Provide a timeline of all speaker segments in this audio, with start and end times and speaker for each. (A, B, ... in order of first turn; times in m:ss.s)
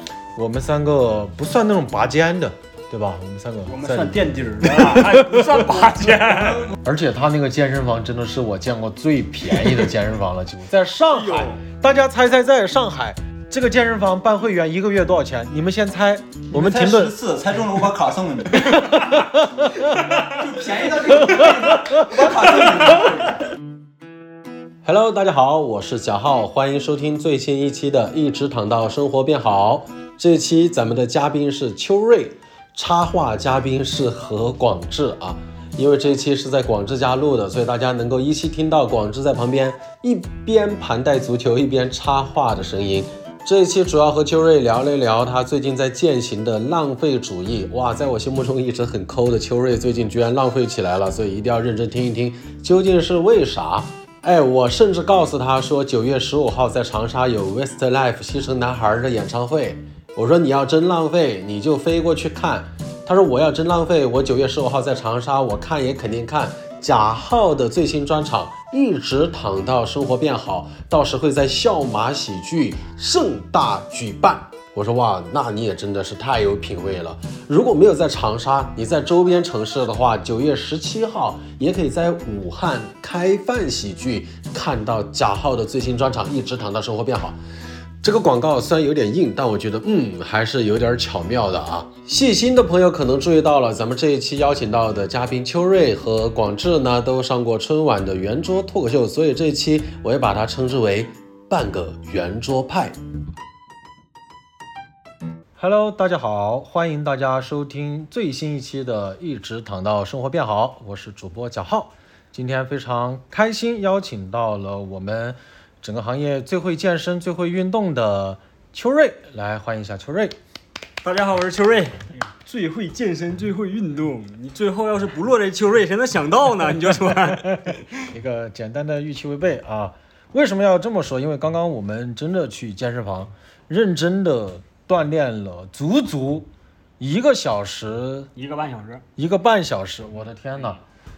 0:00.4-0:05.9 A
0:03.7-0:06.7 B
0:06.3-0:06.7 C
0:06.8-0:17.2 A
0:11.1-0:11.6 B
0:16.5-0:18.8 C
0:18.6-0:20.2 A
0:20.2-0:23.4 C
0:21.4-0:22.0 A
0:24.9-1:27.4 D
1:28.0-1:43.0 D
1:45.6-2:00.4 A
2:01.0-2:07.8 B
2:07.2-2:18.3 A
2:18.4-2:19.0 B
2:19.2-2:20.8 A